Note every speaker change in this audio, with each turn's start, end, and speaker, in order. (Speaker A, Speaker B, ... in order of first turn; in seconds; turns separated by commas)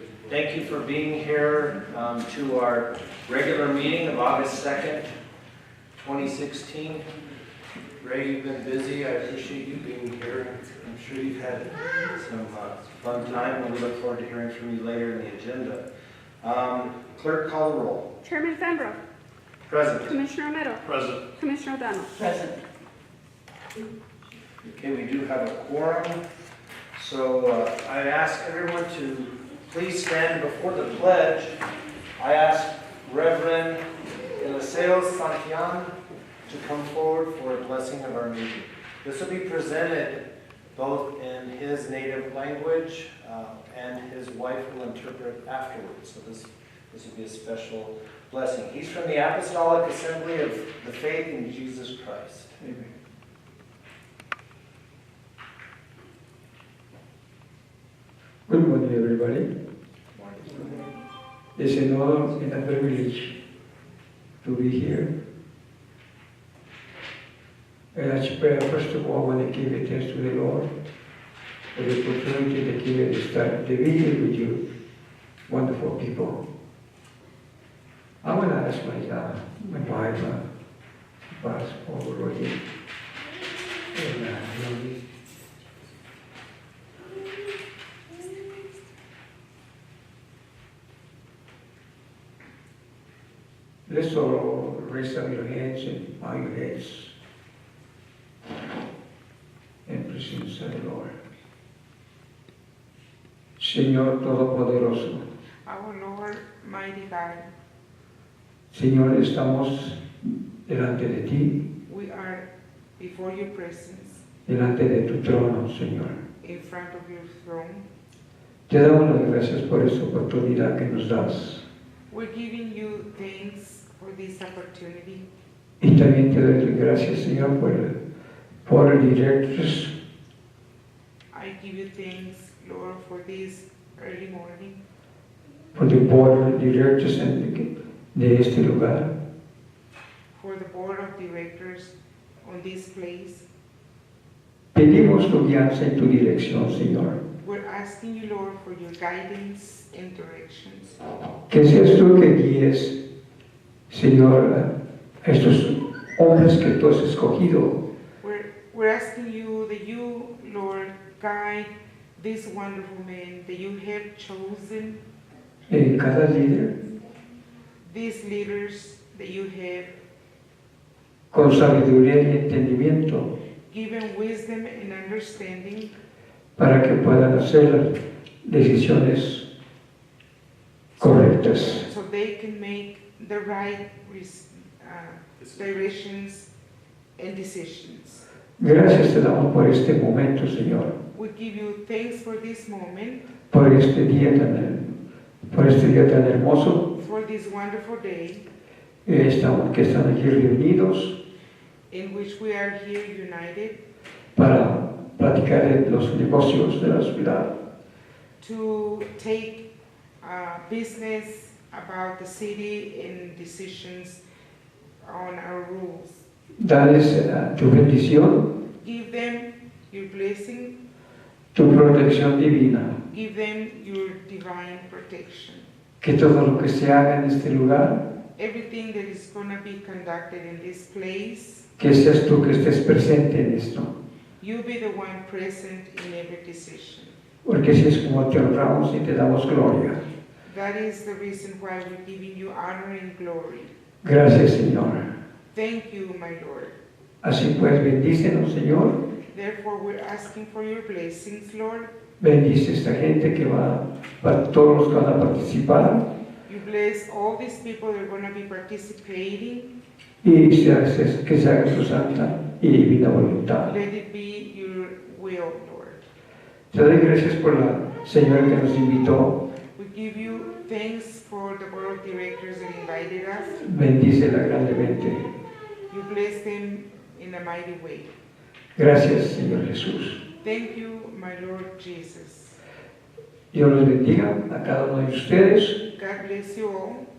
Speaker A: 0.3-5.1, Speaker A: 6.0-7.0, Speaker A: 8.0-15.8, Speaker A: 16.4-18.1, Speaker B: 18.2-19.0, Speaker A: 19.7-20.2, Speaker B: 20.1-22.5, Speaker A: 20.8-21.3, Speaker A: 24.8-26.2, Speaker A: 26.9-31.6, Speaker A: 32.2-33.8, Speaker A: 34.4-35.9, Speaker A: 36.5-40.2, Speaker A: 40.7-52.6, Speaker C: 52.6-52.9, Speaker C: 58.5-59.5, Speaker D: 60.2-61.0, Speaker C: 61.6-63.3, Speaker C: 64.4-65.1, Speaker C: 67.9-70.7, Speaker C: 71.8-74.6, Speaker C: 75.5-76.4, Speaker C: 78.2-80.4, Speaker C: 81.3-82.6, Speaker C: 83.9-85.0, Speaker C: 93.9-97.1, Speaker C: 99.9-101.1, Speaker C: 103.6-105.2, Speaker D: 105.7-107.5, Speaker C: 108.7-110.0, Speaker C: 110.7-111.6, Speaker D: 111.9-112.5, Speaker D: 113.0-114.3, Speaker C: 114.5-116.2, Speaker D: 116.4-117.9, Speaker C: 118.7-121.7, Speaker D: 122.1-125.3, Speaker C: 125.8-127.9, Speaker C: 128.7-129.9, Speaker D: 131.3-134.8, Speaker C: 135.7-139.1, Speaker D: 140.3-143.5, Speaker C: 144.7-147.2, Speaker D: 147.4-151.0, Speaker C: 151.5-153.0, Speaker C: 153.9-154.7, Speaker C: 155.2-157.8, Speaker D: 158.2-165.0, Speaker C: 165.7-166.8, Speaker D: 167.8-169.9, Speaker C: 171.3-173.3, Speaker D: 173.7-175.9, Speaker C: 176.6-179.4, Speaker C: 181.0-181.8, Speaker D: 181.6-186.5, Speaker D: 187.2-188.2, Speaker C: 188.6-190.9, Speaker D: 191.1-193.2, Speaker C: 193.5-195.0, Speaker C: 195.5-196.9, Speaker D: 196.9-198.5, Speaker C: 199.1-201.2, Speaker D: 201.9-203.8, Speaker C: 204.4-207.5, Speaker D: 208.4-209.7, Speaker D: 210.2-214.2, Speaker D: 215.0-216.2, Speaker C: 216.6-218.5, Speaker D: 218.8-220.8, Speaker C: 221.5-223.0, Speaker D: 223.1-225.7, Speaker C: 226.0-228.0, Speaker D: 228.4-231.7, Speaker C: 231.8-233.9, Speaker D: 234.4-237.2, Speaker C: 237.4-240.0, Speaker D: 240.4-243.7, Speaker C: 244.0-245.1, Speaker D: 245.5-246.8, Speaker C: 247.2-249.0, Speaker D: 249.3-251.9, Speaker C: 252.2-256.1, Speaker D: 256.5-259.7, Speaker C: 260.2-263.7, Speaker D: 263.6-266.0, Speaker C: 266.7-269.4, Speaker D: 269.8-273.6, Speaker C: 273.6-275.3, Speaker D: 275.9-278.1, Speaker C: 278.8-280.2, Speaker D: 280.4-282.6, Speaker C: 283.5-285.8, Speaker D: 285.9-287.1